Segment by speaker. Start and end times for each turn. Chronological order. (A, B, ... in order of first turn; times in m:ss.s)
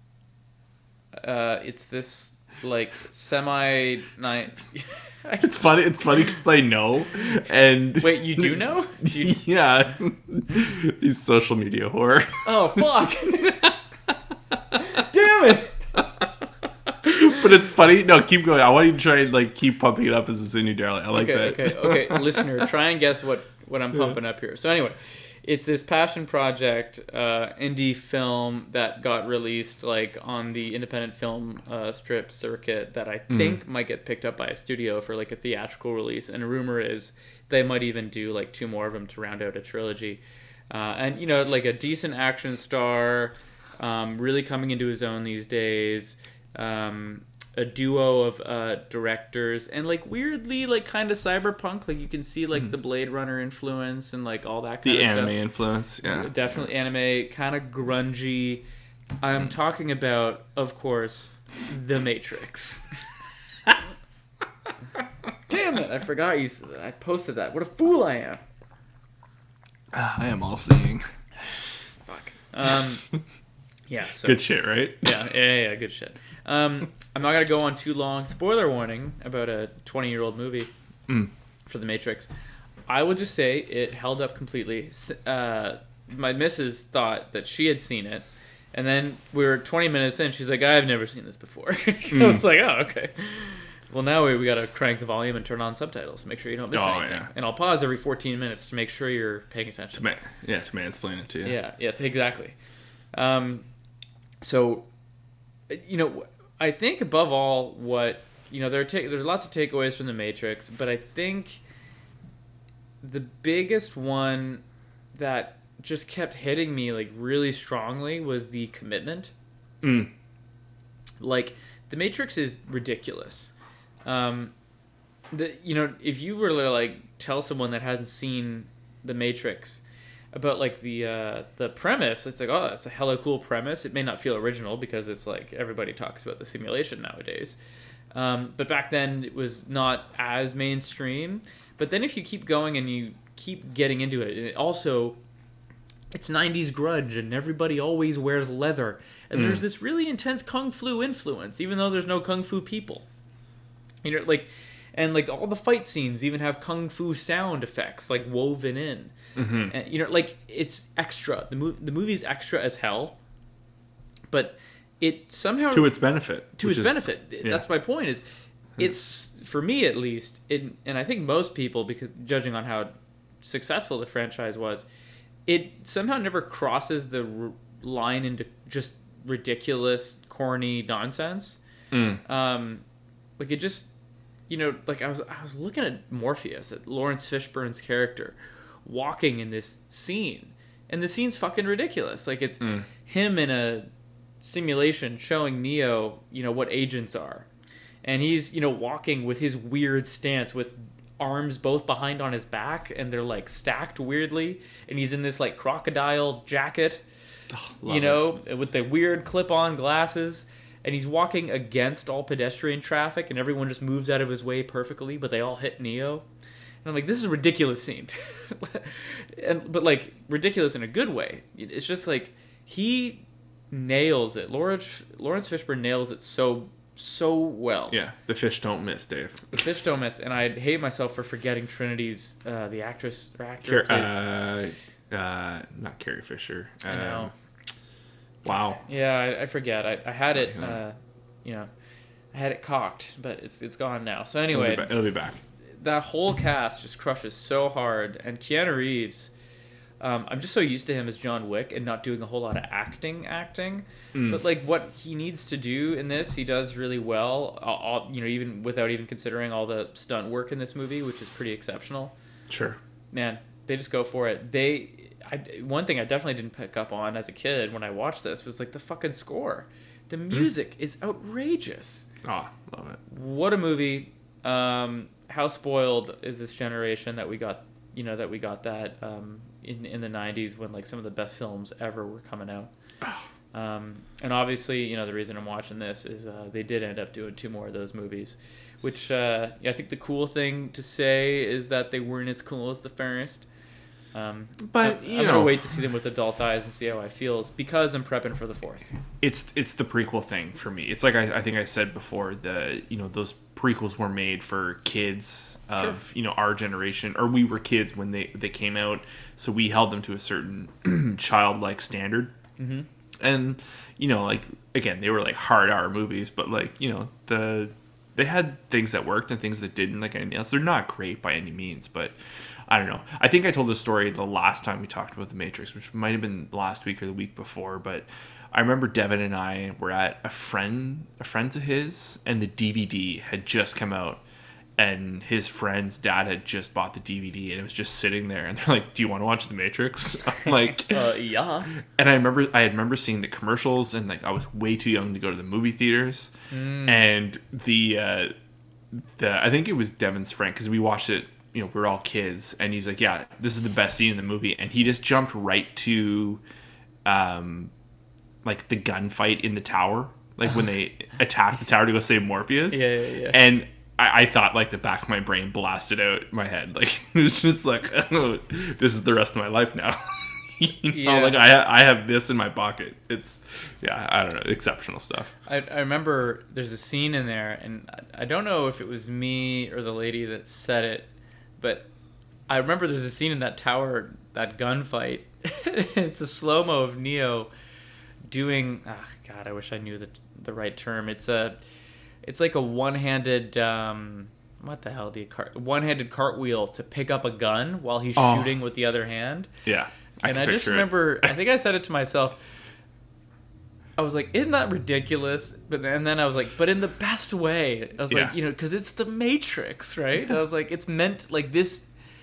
0:01.2-0:05.6 A
0:05.4-0:14.8 B
0:08.0-0:09.4 A
0:12.4-0:13.7 A
0:14.8-0:15.9 A
0:16.0-0:16.3 B
0:16.9-0:22.6 B
0:21.1-0:55.4 A
0:33.3-0:33.6 B
0:54.8-0:56.3 B
0:56.0-0:58.6 A
0:59.2-1:02.9 A
1:05.5-1:08.4 A
1:09.9-1:11.0 B
1:12.0-1:13.1 A
1:13.9-1:14.4 A
1:14.2-1:15.1 B
1:15.0-1:20.7 A
1:21.6-1:22.3 A
1:22.9-1:40.0 A
1:32.1-1:32.4 B
1:36.7-1:37.3 B
1:39.9-1:41.6 B
1:41.4-1:42.6 A
1:43.1-1:43.6 A
1:44.4-1:44.9 A
1:45.7-1:51.6 A
1:53.0-1:54.6 A
1:55.1-1:59.3 A
1:59.8-2:00.1 B
2:01.2-2:03.5 A
2:04.0-2:04.5 A
2:05.3-2:09.8 A
2:10.3-2:17.6 A
2:18.1-2:25.2 A
2:26.1-2:33.0 A
2:29.3-2:29.6 B
2:34.0-2:39.1 A
2:39.4-2:39.7 B
2:39.7-2:43.2 A
2:44.3-2:46.0 A
2:45.7-2:47.6 B
2:46.6-2:48.2 A
2:48.8-2:54.9 A
2:55.5-3:01.6 A
3:01.9-3:02.2 B
3:02.2-3:02.8 A
3:03.4-3:03.9 A
3:04.5-3:13.9 A
3:12.6-3:12.9 B
3:14.4-3:17.4 A
3:18.0-3:27.0 A
3:27.5-3:28.2 B
3:27.9-3:36.2 A
3:36.8-3:48.0 A
3:47.9-3:49.6 B
3:49.5-3:54.2 A
3:53.6-3:57.3 B
3:56.9-3:57.3 A
3:58.4-3:58.8 B
3:58.8-4:01.7 A
4:00.4-4:00.8 B
4:02.3-4:04.9 A
4:04.5-4:05.4 B
4:05.8-4:09.3 A
4:10.0-4:22.1 A
4:14.1-4:14.4 B
4:22.5-4:22.8 B
4:23.1-4:32.0 A
4:32.2-4:33.0 B
4:33.1-4:42.7 A
4:43.5-4:53.4 A
4:54.1-4:59.0 A
4:54.6-4:55.6 B
4:59.2-5:12.3 B
5:12.6-5:12.9 A
5:13.2-5:22.1 B
5:22.7-5:34.2 B
5:34.8-5:41.1 B
5:40.7-5:41.7 A
5:41.7-5:46.3 B
5:46.5-5:47.1 A
5:46.8-5:48.3 B
5:48.9-5:56.4 B
5:57.0-5:57.7 B
5:58.4-6:15.3 B
6:02.7-6:03.4 A
6:10.9-6:11.4 A
6:15.4-6:21.9 A
6:22.5-6:27.5 A
6:28.3-6:31.6 A
6:32.2-6:39.5 A
6:38.2-6:38.6 B
6:39.6-6:41.3 B
6:40.2-6:42.4 A
6:44.0-6:51.9 A